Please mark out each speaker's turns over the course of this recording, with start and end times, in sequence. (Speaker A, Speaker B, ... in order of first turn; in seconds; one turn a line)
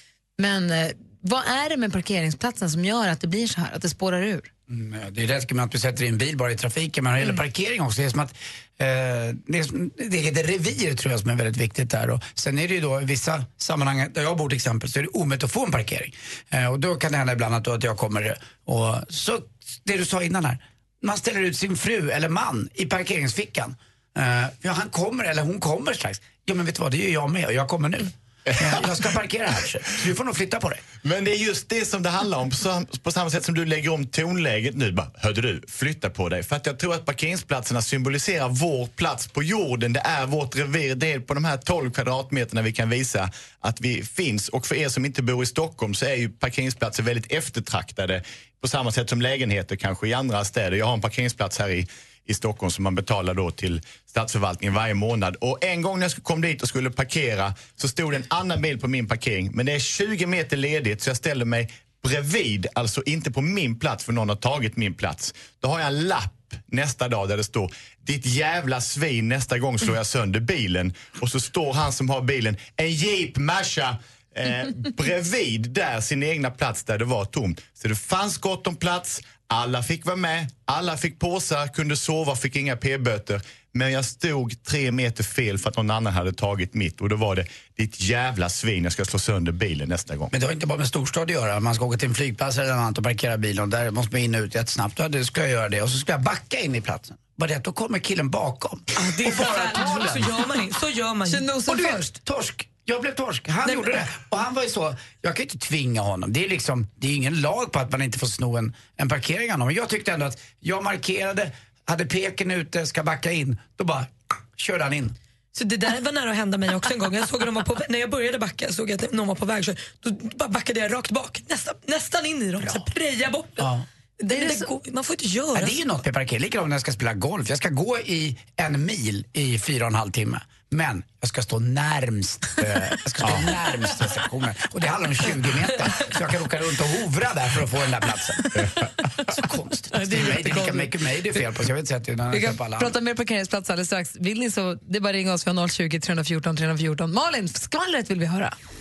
Speaker A: 0.4-4.5
Speaker B: 4.7-30.8
Speaker C: 28.5-28.9
Speaker C: 31.0-90.3
Speaker B: 90.3-100.3
Speaker D: 98.9-101.5
Speaker A: 101.2-102.1
Speaker B: 101.7-115.1
Speaker D: 103.6-104.1
Speaker D: 115.5-123.7
Speaker B: 123.6-123.9
Speaker D: 124.2-125.8
Speaker A: 124.3-124.7
Speaker B: 125.5-142.9
Speaker D: 139.9-140.9
Speaker A: 142.3-148.6